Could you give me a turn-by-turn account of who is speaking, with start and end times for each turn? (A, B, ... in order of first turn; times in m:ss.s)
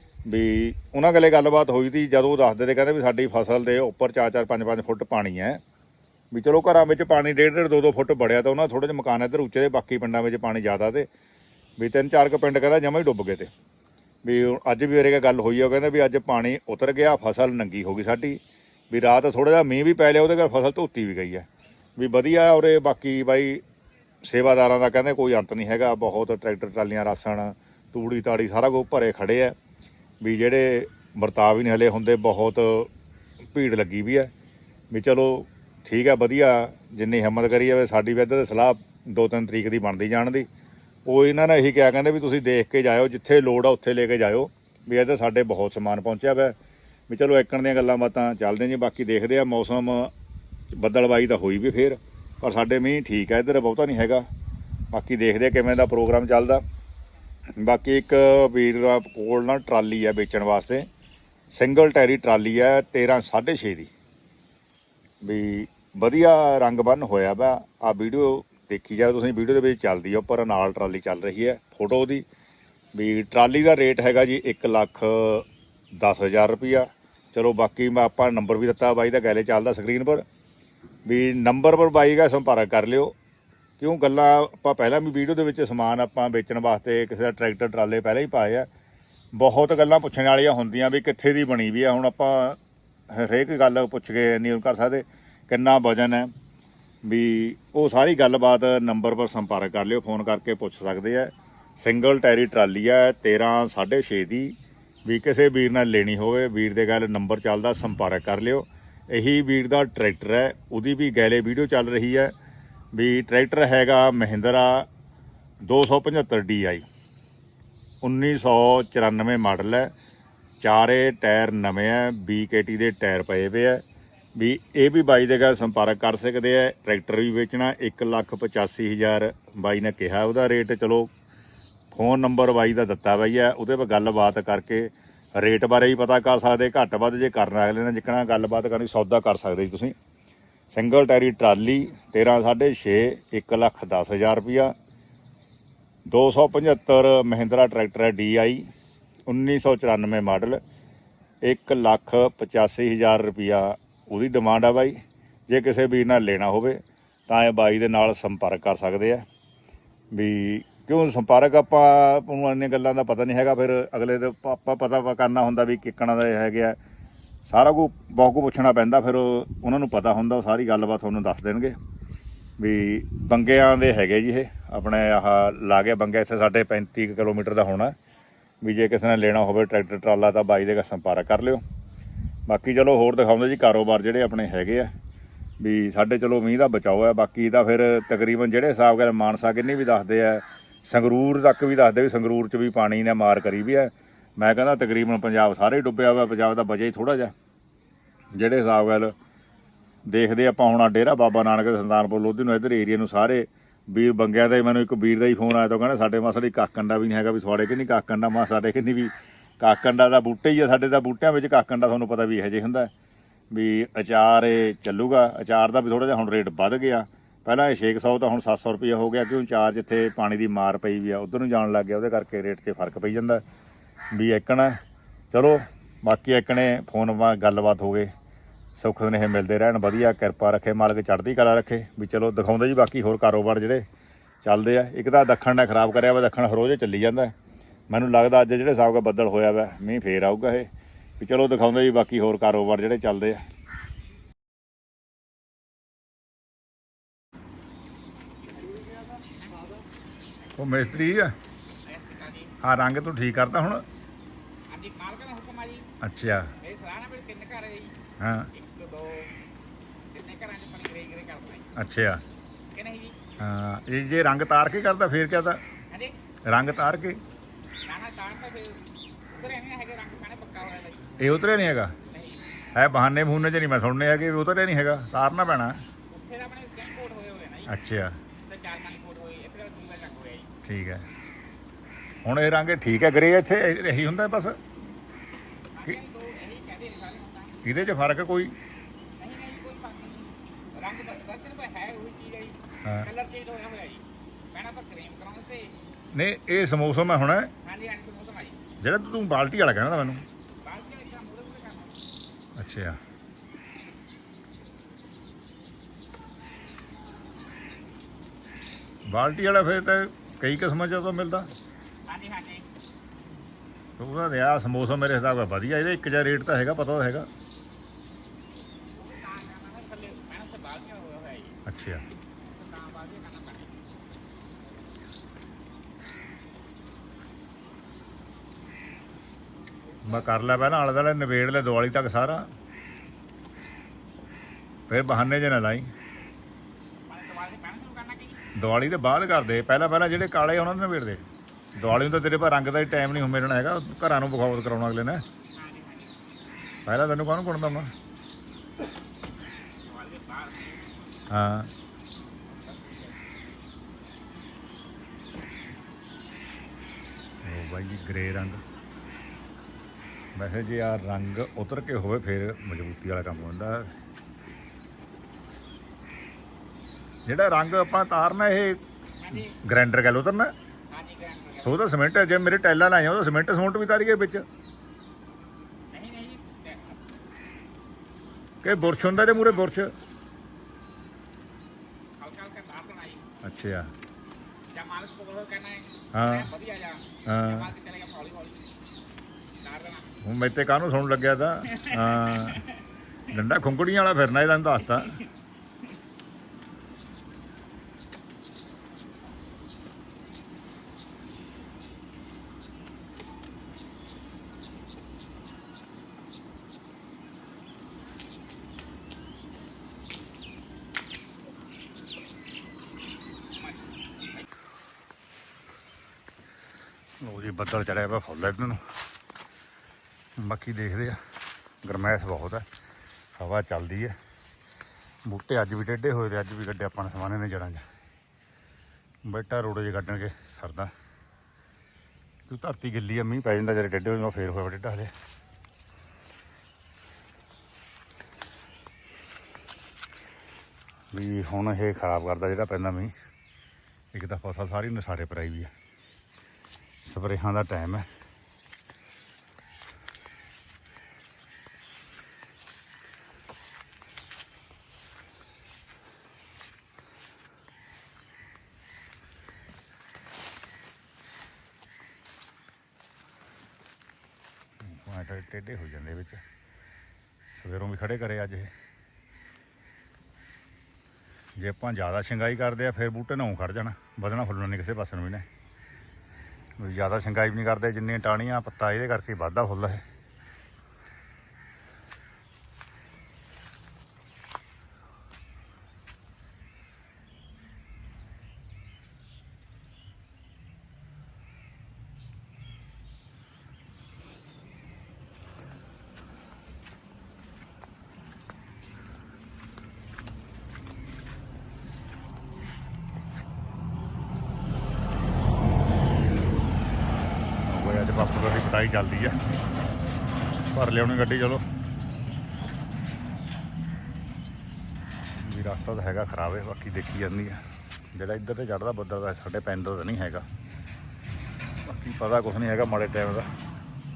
0:00.2-0:05.6 A
0:06.3-0:11.1 A
0:11.8-0:13.5 A
0:14.2-0:18.4 A
0:18.9-0:21.5 A
0:22.0-0:23.6 A
0:24.2-0:29.5 A
0:30.2-0:32.9 A
0:33.4-0:34.3 A
0:34.9-0:40.5 A
0:41.0-0:46.5 A
0:47.1-0:50.1 A
0:50.7-0:54.2 A
0:54.9-0:56.6 A
0:57.6-1:00.9 A
1:01.5-1:03.9 A
1:05.2-1:12.2 A
1:12.9-1:20.2 A
1:21.0-1:23.1 A
1:23.8-1:28.7 A
1:29.3-1:32.6 A
1:33.1-1:36.3 A
1:37.0-1:52.3 A
1:52.9-1:54.9 A
1:55.6-1:56.8 A
1:58.0-1:59.9 A
2:00.6-2:03.8 A
2:04.4-2:11.1 A
2:11.9-2:19.9 A
2:20.7-2:24.7 A
2:26.0-2:28.6 A
2:29.3-2:30.6 A
2:31.4-2:39.2 A
2:40.1-2:46.8 A
2:47.4-2:51.8 A
2:52.6-2:57.9 A
2:58.6-3:01.6 A
3:02.5-3:04.9 A
3:05.6-3:17.3 A
3:18.3-3:19.1 A
3:20.1-3:32.9 A
3:33.5-3:43.4 A
3:44.1-3:44.8 A
3:45.3-3:48.1 A
3:48.7-3:53.8 A
3:54.4-3:57.3 A
3:57.9-4:00.7 A
4:01.2-4:03.5 A
4:08.6-4:09.7 B
4:10.6-4:11.3 A
4:11.8-4:12.5 B
4:12.6-4:13.8 A
4:14.7-4:15.9 B
4:16.0-4:16.5 A
4:16.6-4:18.0 B
4:18.2-4:18.5 A
4:18.5-4:19.3 B
4:20.1-4:21.7 B
4:21.7-4:22.2 A
4:22.7-4:23.2 B
4:23.4-4:25.6 A
4:26.5-4:27.2 A
4:27.8-4:31.2 B
4:31.2-4:31.9 A
4:32.0-4:32.5 B
4:32.7-4:35.8 A
4:36.1-4:37.7 B
4:37.7-4:38.2 A
4:38.4-4:40.5 B
4:40.6-4:41.0 A
4:42.2-4:44.6 A
4:45.7-4:47.6 B
4:47.6-4:48.5 A
4:49.2-4:55.8 B
4:56.1-4:57.5 A
4:57.6-4:58.6 B
4:58.8-5:00.2 A
5:00.6-5:02.0 B
5:02.6-5:03.0 A
5:09.1-5:11.5 A
5:12.1-5:12.7 B
5:14.0-5:17.3 A
5:18.9-5:21.6 B
5:21.6-5:22.0 A
5:22.4-5:23.8 B
5:30.0-5:30.6 B
5:30.0-5:32.5 A
5:34.9-5:35.9 A
5:37.1-5:38.4 B
5:38.5-5:41.2 A
5:41.8-5:45.2 A
5:45.5-5:46.2 B
5:46.8-5:47.9 A
5:49.8-5:51.0 B
5:51.3-5:51.7 A
5:52.5-5:53.3 B
5:57.4-5:58.6 A
6:00.3-6:03.9 A
6:07.2-6:08.8 A
6:09.2-6:09.6 B
6:09.3-6:10.5 A
6:10.9-6:11.8 B
6:11.6-6:14.4 A
6:15.9-6:17.1 B
6:18.6-6:19.9 A
6:18.9-6:19.5 B
6:22.2-6:23.2 B
6:23.4-6:23.9 A
6:24.7-6:28.6 B
6:26.1-6:26.5 A
6:27.2-6:27.7 A
6:29.6-6:30.2 B
6:30.2-6:32.6 A
6:31.7-6:32.8 B
6:33.3-6:35.2 A
6:53.6-6:53.8 B
6:57.2-6:58.8 A
7:00.4-7:01.2 A
7:01.8-7:02.6 A
7:03.4-7:04.2 A
7:05.2-7:07.8 A
7:09.2-7:10.9 A
7:12.5-7:15.1 A
7:21.1-7:23.1 A
7:24.1-7:25.7 A
7:27.0-7:28.1 A
7:44.8-7:46.4 A
7:47.5-7:48.7 A
7:51.6-7:55.4 A
7:56.8-8:00.0 A
8:27.6-8:29.4 A
8:30.7-8:31.6 A
8:35.4-8:37.6 A
8:38.1-8:40.4 A
8:41.8-8:43.5 A